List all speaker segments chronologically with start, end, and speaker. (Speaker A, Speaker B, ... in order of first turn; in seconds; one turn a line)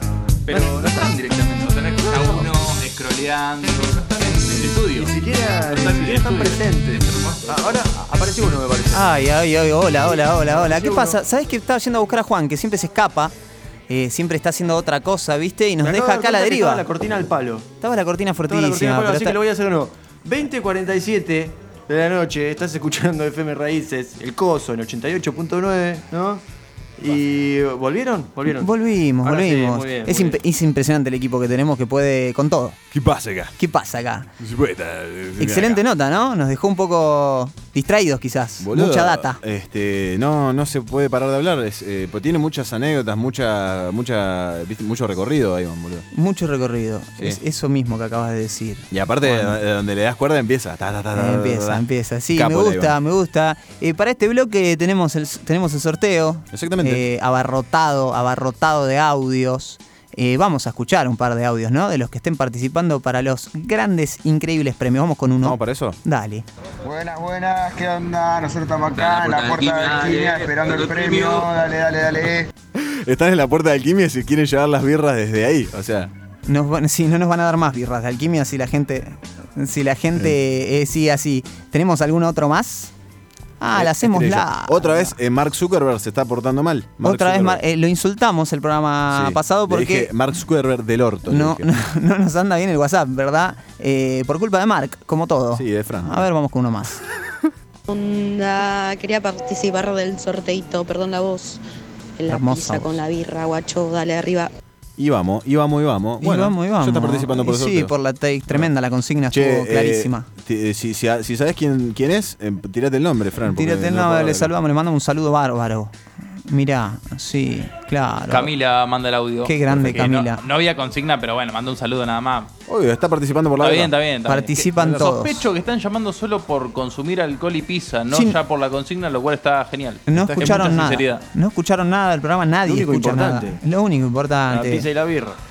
Speaker A: 0.5-7.5
Speaker B: 0.5-1.2
Speaker B: 2.1-2.5
Speaker B: 4.5-9.1
Speaker C: 8.9-13.3
Speaker B: 10.2-11.2
Speaker C: 13.9-16.8
Speaker B: 15.8-17.6
Speaker C: 17.8-19.4
Speaker B: 18.5-26.4
Speaker B: 27.0-28.7
Speaker C: 28.5-32.8
Speaker B: 29.2-30.4
Speaker D: 32.9-33.5
Speaker C: 33.6-34.3
Speaker D: 34.4-35.8
Speaker C: 35.4-39.4
Speaker D: 38.6-46.0
Speaker C: 46.1-49.6
Speaker D: 48.9-53.0
Speaker C: 51.1-66.4
Speaker D: 56.5-57.0
Speaker D: 65.4-66.0
Speaker E: 66.8-72.5
Speaker D: 72.7-76.1
Speaker C: 76.5-82.9
Speaker C: 83.6-85.1
Speaker D: 83.7-87.6
Speaker C: 87.0-90.1
Speaker D: 89.1-91.7
Speaker C: 91.3-97.0
Speaker D: 95.5-96.3
Speaker F: 97.9-101.6
Speaker F: 102.2-104.5
Speaker C: 102.3-102.9
Speaker D: 105.0-107.9
Speaker C: 106.2-110.3
Speaker D: 109.3-114.5
Speaker C: 113.5-118.5
Speaker A: 118.3-122.5
Speaker C: 119.4-120.4
Speaker D: 122.7-123.9
Speaker A: 123.6-131.2
Speaker C: 124.2-125.5
Speaker C: 128.1-128.4
Speaker C: 130.1-134.8
Speaker D: 130.1-130.8
Speaker B: 132.7-133.6
Speaker B: 134.5-135.4